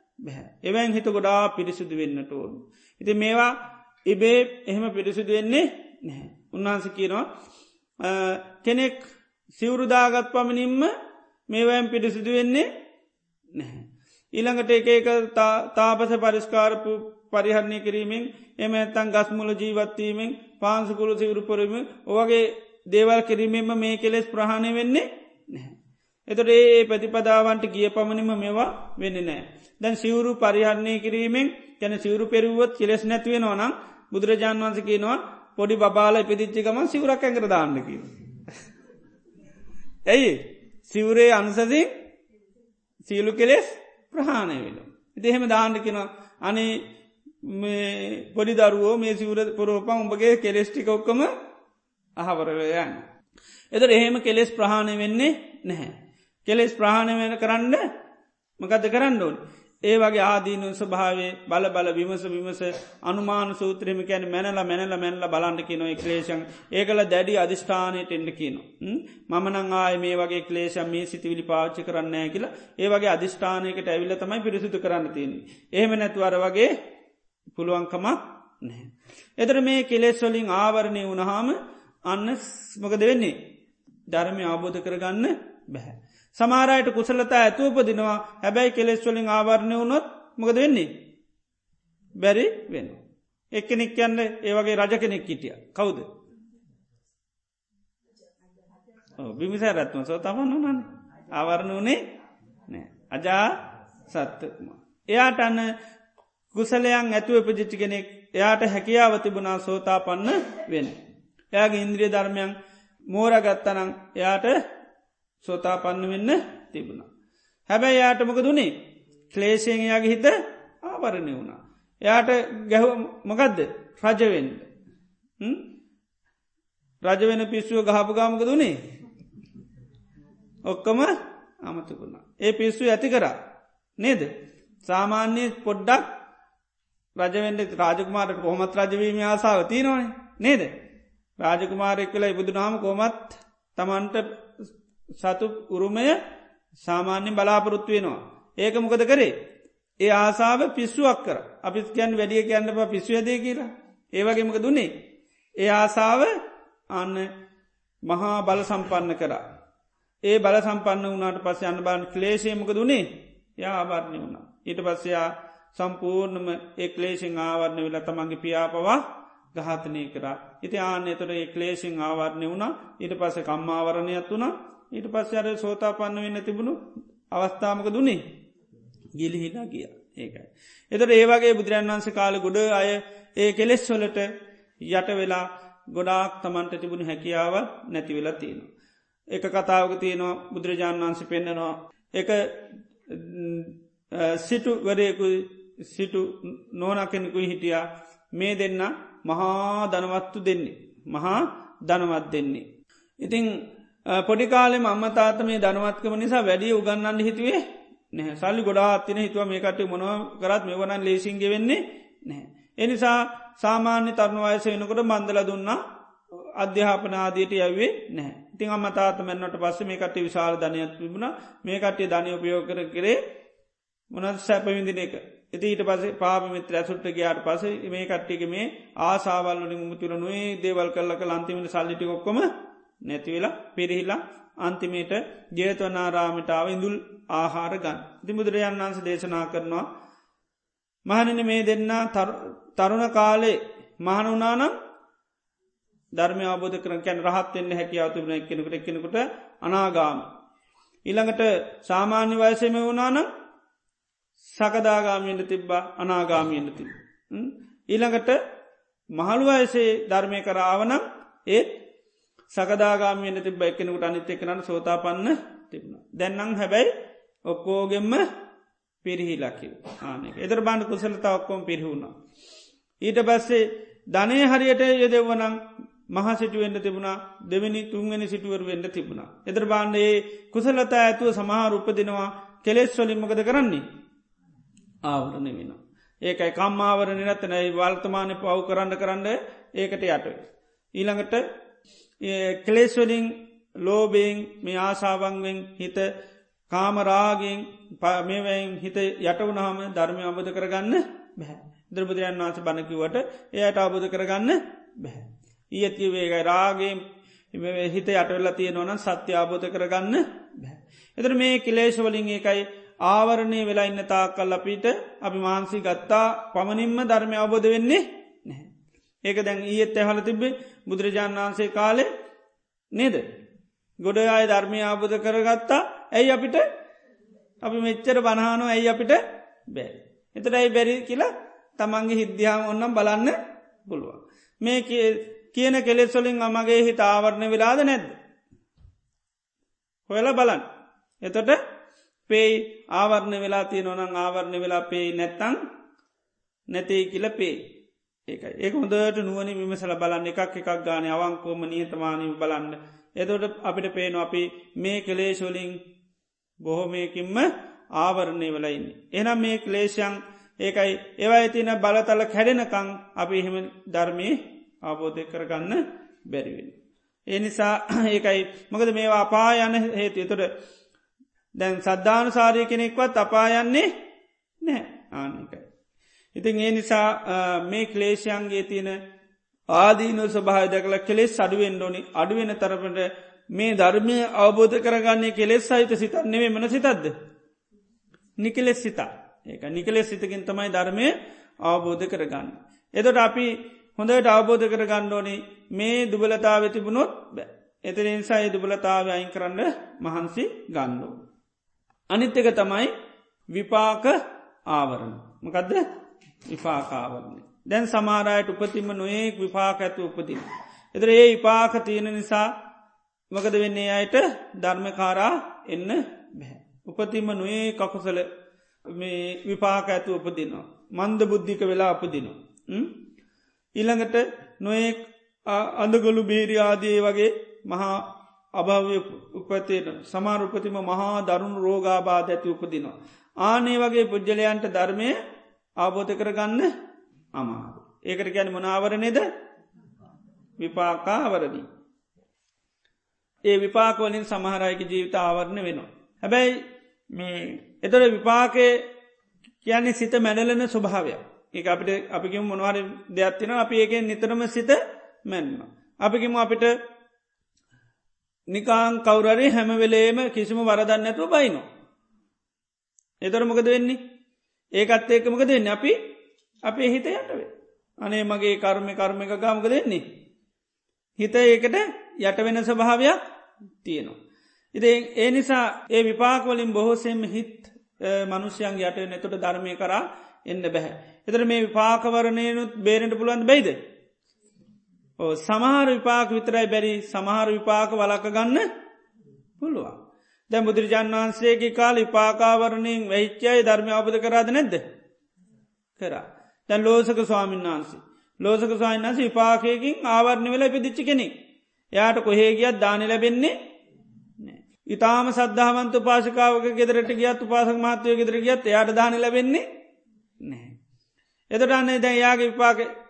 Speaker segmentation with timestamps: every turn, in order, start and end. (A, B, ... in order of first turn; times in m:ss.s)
0:00.2-0:07.2 A
0:08.0-0:10.9 A
0:11.5-0:12.7 A
0:13.5-0:25.8 A
0:26.3-0:38.2 A
0:40.0-0:41.9 A
0:43.0-0:46.8 A
0:47.4-0:51.3 A
0:52.2-0:53.1 A
0:53.7-0:57.8 A
0:58.6-1:16.7 A
1:17.5-1:23.4 A
1:24.1-1:30.9 A
1:32.2-1:36.1 A
1:39.2-1:42.0 A
1:42.7-1:45.7 A
1:46.5-1:51.0 A
1:51.5-1:52.5 A
1:53.1-1:54.6 A
1:55.4-1:57.1 A
1:57.7-1:58.8 A
1:59.3-2:04.7 A
2:05.4-2:05.7 A
2:07.0-2:08.8 A
2:10.6-2:13.4 A
2:14.0-2:14.3 A
2:14.8-2:16.1 A
2:17.2-2:20.7 A
2:21.4-2:26.2 A
2:26.8-2:29.3 A
2:30.0-2:35.0 A
2:35.6-2:36.3 A
2:36.9-2:37.3 A
2:38.0-2:39.4 A
2:40.2-2:58.3 A
2:59.2-3:08.7 A
3:09.3-3:22.7 A
3:23.2-3:35.8 A
3:36.6-3:43.2 A
3:44.1-3:52.5 A
3:53.0-3:59.9 A
4:01.0-4:04.7 A
4:06.2-4:10.3 A
4:11.0-4:13.3 A
4:14.6-4:18.4 A
4:19.1-4:21.8 A
4:22.5-4:26.9 A
4:27.5-4:28.2 A
4:29.0-4:32.1 A
4:33.0-4:43.8 A
4:45.0-4:51.4 A
4:52.2-4:56.1 A
4:56.7-5:07.0 A
5:07.5-5:18.7 A
5:19.2-5:22.1 A
5:22.9-5:23.3 A
5:24.0-5:26.6 A
5:27.6-5:33.4 A
5:33.9-5:38.1 A
5:40.1-5:40.6 A
5:41.2-5:41.6 A
5:42.3-5:45.6 A
5:46.7-5:47.7 A
5:48.3-5:55.8 A
5:56.6-6:06.8 A
6:07.3-6:10.5 A
6:11.6-6:13.9 A
6:14.6-6:15.7 A
6:16.3-6:19.0 A
6:19.7-6:27.1 A
6:28.4-6:41.2 A
6:42.1-6:42.9 A
6:43.5-6:45.8 A
6:46.5-6:52.5 A
6:53.3-6:58.3 A
6:58.9-7:03.0 A
7:03.8-7:15.2 A
7:15.8-7:16.7 A
7:17.4-7:19.3 A
7:20.6-7:21.7 A
7:23.5-7:28.9 A
7:29.6-7:36.8 A
7:38.5-7:41.6 A
7:43.2-7:44.0 A
7:44.8-7:46.0 A
7:46.6-7:47.5 A
7:48.0-7:50.1 A
7:51.2-7:53.2 A
7:53.8-7:54.2 A
7:54.7-8:03.8 A
8:05.2-8:08.7 A
8:09.6-8:10.0 A
8:10.5-8:14.8 A
8:16.0-8:21.3 A
8:21.9-8:23.5 A
8:24.4-8:29.6 A
8:30.4-8:30.8 A
8:31.5-8:32.9 A